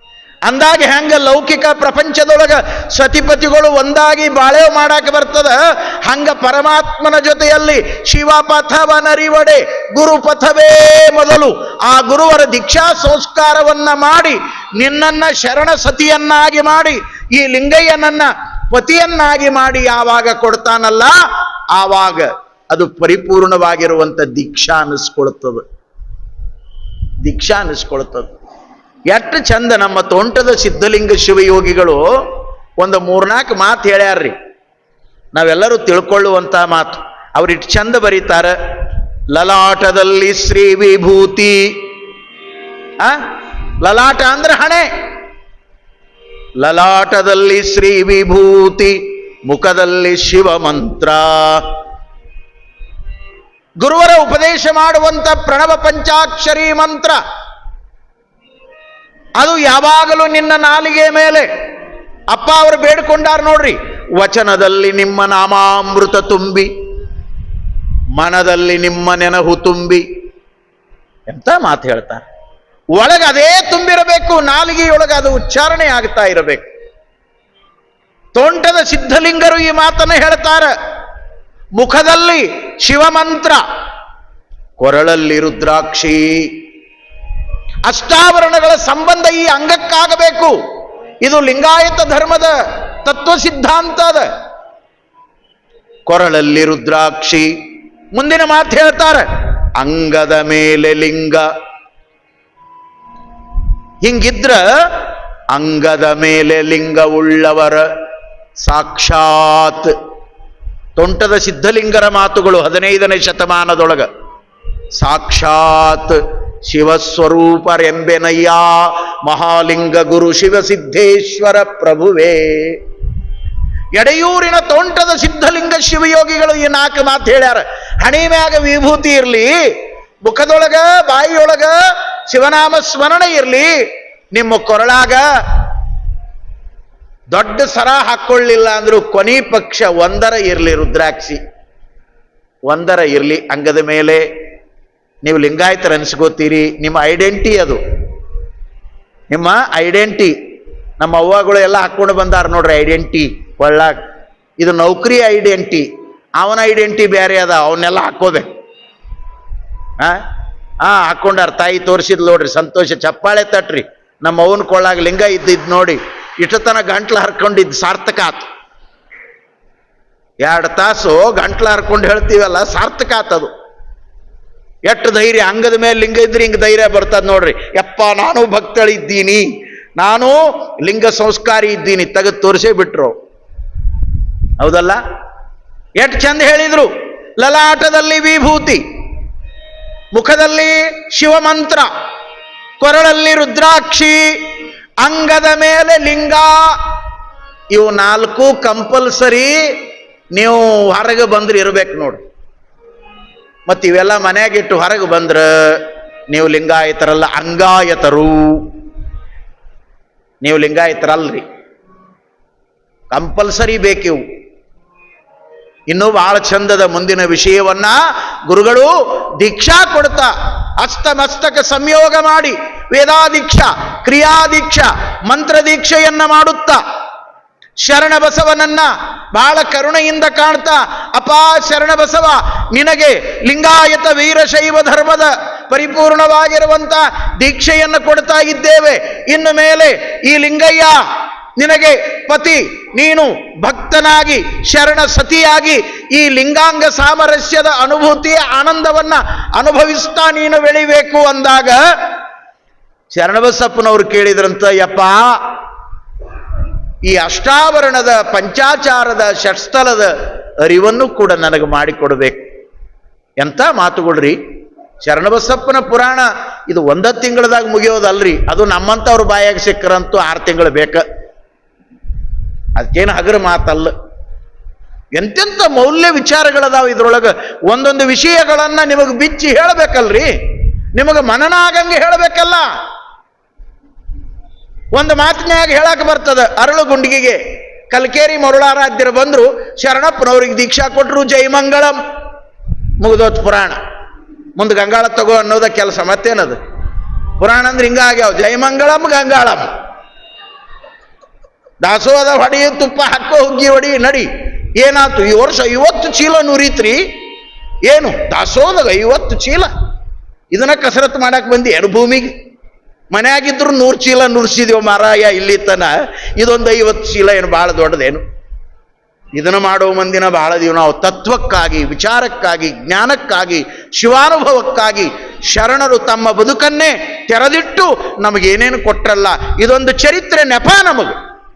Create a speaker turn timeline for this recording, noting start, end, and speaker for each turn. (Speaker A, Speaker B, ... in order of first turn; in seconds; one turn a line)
Speaker A: 0.4-21.1
Speaker A: 21.7-25.6
Speaker A: 27.2-28.3
Speaker A: 29.1-32.0
Speaker A: 32.8-34.3
Speaker A: 35.3-38.5
Speaker A: 39.3-41.7
Speaker A: 43.8-44.9
Speaker A: 46.6-51.7
Speaker A: 53.8-57.2
Speaker A: 59.4-61.5
Speaker A: 62.3-66.7
Speaker A: 68.1-70.0
Speaker A: 71.3-72.2
Speaker A: 73.0-76.7
Speaker A: 78.3-80.7
Speaker A: 81.8-83.6
Speaker A: 84.8-86.5
Speaker A: 87.9-90.5
Speaker A: 91.2-94.3
Speaker A: 96.0-97.5
Speaker A: 98.1-101.5
Speaker A: 104.0-107.9
Speaker A: 108.6-110.0
Speaker A: 111.0-114.1
Speaker A: 114.9-122.8
Speaker A: 123.9-129.5
Speaker A: 130.2-131.8
Speaker A: 132.3-133.7
Speaker A: 134.3-135.2
Speaker A: 137.3-141.4
Speaker A: 142.7-144.2
Speaker A: 145.2-147.8
Speaker A: 149.3-150.3
Speaker A: 151.0-154.0
Speaker A: 154.6-155.9
Speaker A: 156.4-158.5
Speaker A: 160.8-168.5
Speaker A: 170.4-173.5
Speaker A: 174.8-183.1
Speaker A: 184.6-185.0
Speaker A: 186.0-188.8
Speaker A: 190.1-191.9
Speaker A: 192.8-196.6
Speaker A: 197.7-199.5
Speaker A: 200.3-202.2
Speaker A: 203.7-208.7
Speaker A: 210.4-211.4
Speaker A: 213.1-214.2
Speaker A: 215.9-226.8
Speaker A: 227.8-240.9
Speaker A: 241.6-251.8
Speaker A: 253.1-255.2
Speaker A: 257.0-260.1
Speaker A: 260.6-262.4
Speaker A: 263.4-264.4
Speaker A: 265.0-271.0
Speaker A: 272.8-273.9
Speaker A: 275.1-280.3
Speaker A: 280.9-282.7
Speaker A: 284.9-292.0
Speaker A: 293.0-293.8
Speaker A: 294.5-296.6
Speaker A: 297.4-299.7
Speaker A: 301.8-307.1
Speaker A: 307.8-309.7
Speaker A: 310.5-312.3
Speaker A: 313.1-318.2
Speaker A: 319.3-331.1